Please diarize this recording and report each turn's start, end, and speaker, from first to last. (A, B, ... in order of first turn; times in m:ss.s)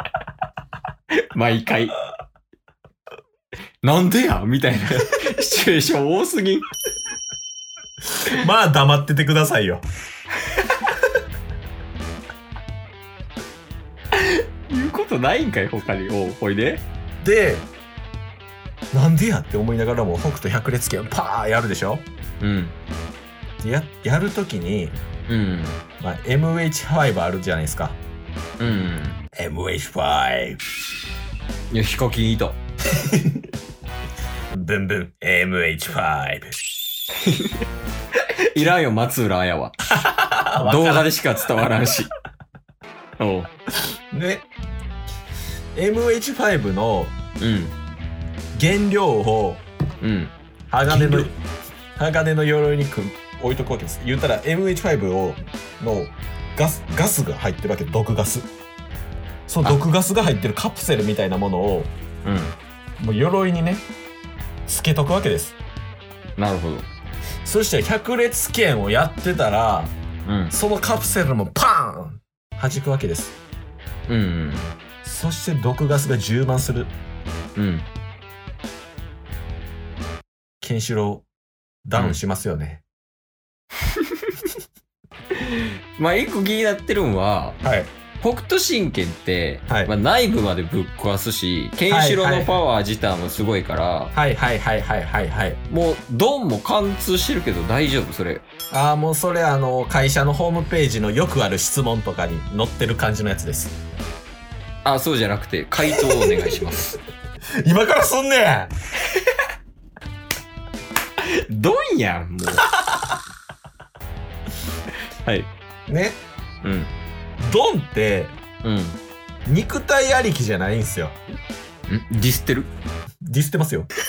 0:01.3-0:02.0 A
0:03.8-0:06.7 A
0:08.2-0:09.8 B
0:10.5-0:10.8 A
0:14.1-0:16.8 A
0:17.2-0:17.7 B
0:18.9-0:22.1 B
0:22.4-0:22.8 A
0:23.6-0:25.0 B
0:25.3-0:25.8 A
0:26.0-0:28.0 B
0:28.6-0:29.2 A
0:29.3-0:30.6 B
0:31.7-0:32.6 A
0:32.9-0:33.4 B
0:34.5-0:36.6 B
0:37.2-0:37.6 A
0:38.5-0:39.8 A
0:40.0-0:41.1 B
0:40.6-0:42.1 A
0:43.2-0:43.5 A
0:44.1-0:44.5 B
0:45.8-0:47.2 B
0:47.4-0:47.8 A
0:48.5-0:49.6 B
0:50.0-0:50.3 A
0:50.7-0:51.3 B
0:50.9-0:51.3 A
0:52.0-0:58.5 B
0:59.5-1:01.9 B
1:02.2-1:02.6 A
1:03.0-1:03.9 B
1:04.7-1:05.6 B
1:06.4-1:06.9 A
1:07.4-1:10.0 B
1:10.3-1:10.5 A
1:10.5-1:13.4 B
1:14.1-1:14.7 A
1:15.0-1:16.9 B
1:17.6-1:17.9 A
1:20.6-1:21.3 B
1:21.8-1:22.8 B
1:23.9-1:24.4 A
1:25.4-1:27.6 A
1:27.6-1:27.9 B
1:28.2-1:34.1 A
1:31.9-1:32.6 B
1:34.1-1:35.6 B
1:35.7-1:38.4 A
1:38.7-1:43.8 B
1:44.8-1:47.0 A
1:45.9-1:46.6 B
1:47.6-1:48.7 B
1:51.2-1:52.7 A
1:55.2-1:55.5 A
1:55.9-1:56.2 B
1:56.6-1:56.9 A
1:57.4-1:58.4 B
1:58.6-1:59.0 A
1:59.5-2:01.2 B
2:01.9-2:02.7 A
2:03.2-2:03.9 B